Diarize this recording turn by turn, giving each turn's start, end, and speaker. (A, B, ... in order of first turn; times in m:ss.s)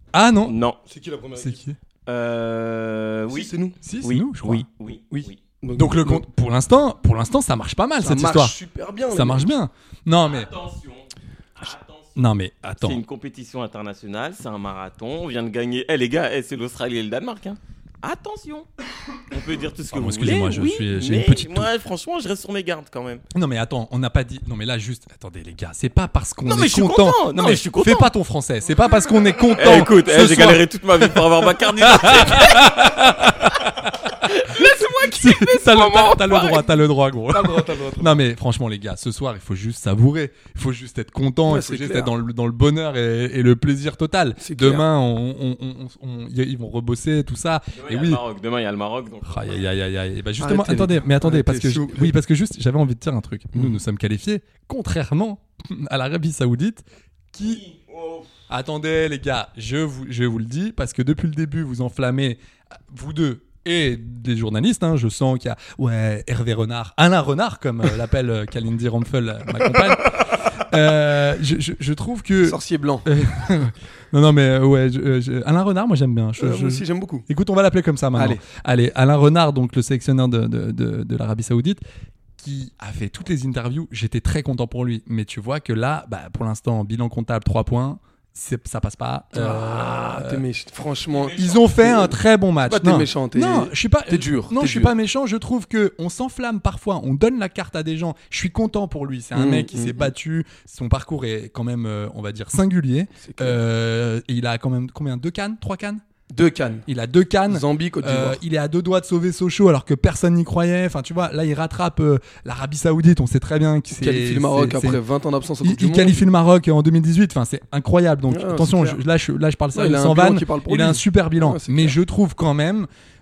0:00.1-0:00.6 A
0:00.4-0:00.8 B
0:00.9-0:01.6 C
0:01.4-0:01.8 A
0:02.1-0:05.4 B
0:03.3-0:03.8 C
0:03.8-0:04.7 A
0:05.1-0:06.2 C
0:05.8-0:08.6 A
0:08.0-0:09.5 C
0:09.1-0:10.5 A
0:10.2-0:12.2 B
0:12.2-0:13.0 A
0:12.8-0:18.7 B
0:19.3-0:23.2 B
0:19.9-0:21.7 A
0:23.3-0:48.2 A
0:26.4-0:28.1 B
0:29.6-0:32.9 B
0:34.2-0:36.7 B
0:37.3-0:38.2 C
0:41.5-0:42.1 C
0:44.4-0:44.8 C
0:47.8-0:49.6 B
0:49.2-0:57.6 A
0:50.4-0:52.1 C
0:57.4-0:58.3 B
0:58.5-1:02.4 A
1:02.9-1:21.8 A
1:12.4-1:13.1 C
1:16.4-1:17.2 C
1:18.1-1:18.4 C
1:22.4-1:30.4 A
1:29.3-1:34.9 C
1:31.3-1:46.0 A
1:39.3-1:40.1 C
1:43.2-1:43.6 C
1:46.3-1:46.8 C
1:46.9-1:55.0 A
1:47.5-1:48.4 C
1:53.9-1:56.2 C
1:55.6-2:02.9 A
1:58.3-1:59.0 C
1:59.7-2:02.0 C